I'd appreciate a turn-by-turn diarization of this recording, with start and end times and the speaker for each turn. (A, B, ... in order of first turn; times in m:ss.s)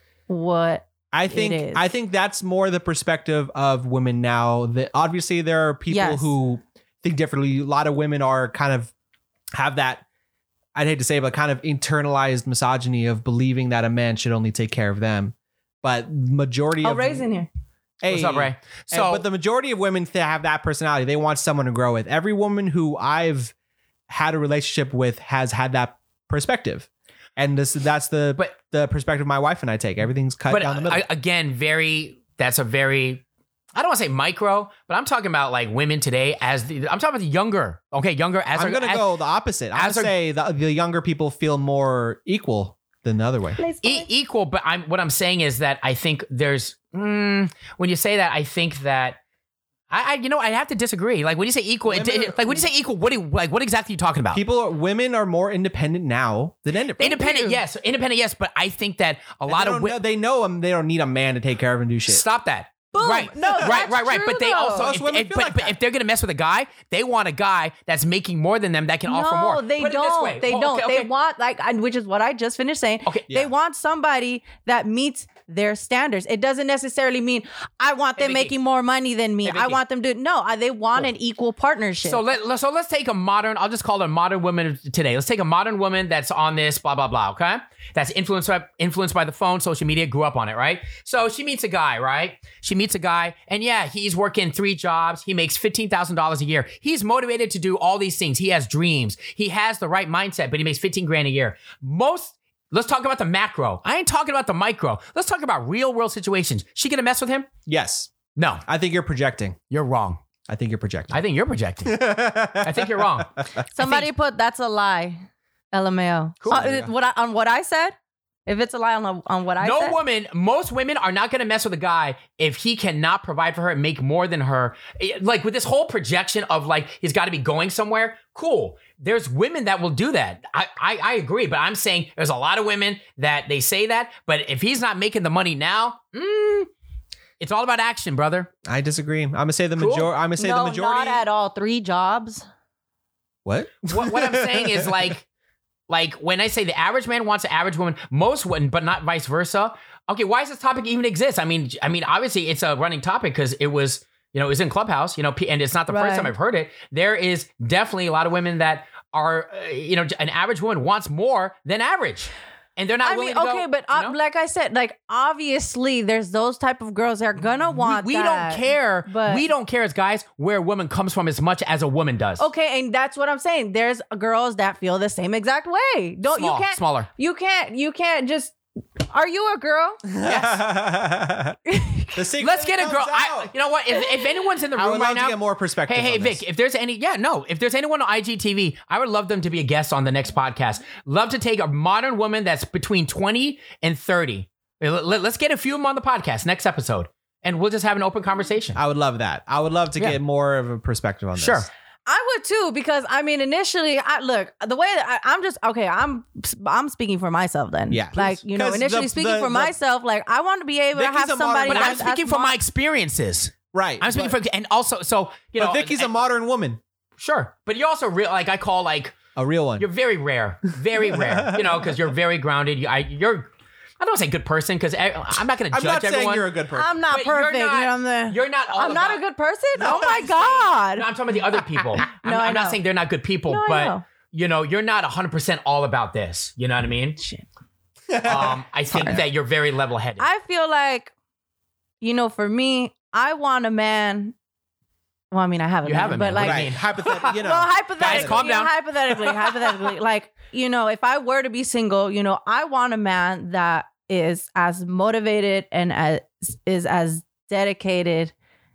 0:00.3-0:01.8 A
0:01.1-0:08.9 B
0:05.9-0:06.3 A
0:09.5-0:10.0 B
0:10.7-0:17.3 B
0:16.8-0:17.5 A
0:18.0-0:23.5 B
0:18.1-0:19.2 C
0:24.1-0:31.0 B
0:30.5-0:33.2 C
0:33.7-0:39.1 C
0:38.5-0:43.6 B
0:39.7-0:40.1 C
0:43.6-0:44.1 A
0:43.8-0:49.2 C
0:49.9-0:54.4 C
0:51.9-0:52.6 B
0:54.3-0:57.2 B
0:57.0-0:57.6 A
0:57.0-1:00.0 C
0:59.5-1:02.2 B
1:02.1-1:11.1 C
1:02.9-1:04.9 A
1:03.4-1:03.9 B
1:04.8-1:05.7 B
1:09.1-1:22.2 A
1:13.0-1:13.5 C
1:18.2-1:18.5 C
1:19.4-1:19.8 C
1:22.0-1:47.5 C
1:47.7-1:48.1 B
1:48.3-1:48.6 C
1:48.6-1:49.6 B
1:49.7-1:50.2 C
1:50.5-1:51.2 B
1:51.1-1:54.1 C
1:51.8-1:53.2 B
1:53.7-2:00.0 A
1:56.5-1:56.9 B
1:59.6-2:16.7 C
2:17.4-2:18.5 C
2:18.6-2:21.2 B
2:19.8-2:20.1 C
2:20.4-2:22.5 A
2:23.4-2:24.9 B
2:23.8-2:25.2 C
2:25.9-2:44.2 C
2:35.9-2:36.3 A
2:43.0-2:49.4 A
2:47.8-2:52.4 C
2:52.4-2:58.6 A
2:56.3-2:57.1 C
2:59.1-3:00.0 A
3:00.0-3:01.6 B
3:00.2-3:00.6 C
3:01.7-3:02.2 A
3:02.1-3:03.5 B
3:02.4-3:18.8 C
3:04.7-3:06.4 B
3:18.7-3:21.7 B
3:21.4-3:21.7 C
3:22.1-3:32.5 A
3:27.9-3:29.7 B
3:30.9-3:32.1 B
3:31.7-3:36.1 C
3:33.7-3:34.4 B
3:35.6-3:36.8 B
3:37.2-3:39.2 C
3:39.4-3:39.9 B
3:39.8-3:46.5 C
3:41.0-3:42.0 B
3:45.7-3:46.9 B
3:46.7-3:52.8 A
3:47.1-3:49.2 C
3:49.7-3:57.2 C
3:49.8-3:50.1 B
3:53.5-3:54.0 A
3:57.2-3:57.4 A
3:58.1-3:59.2 B
3:58.2-4:00.3 C
4:00.2-4:01.1 A
4:02.0-4:04.3 A
4:05.3-4:18.3 A
4:05.8-4:07.4 C
4:06.4-4:08.5 B
4:08.0-4:09.9 C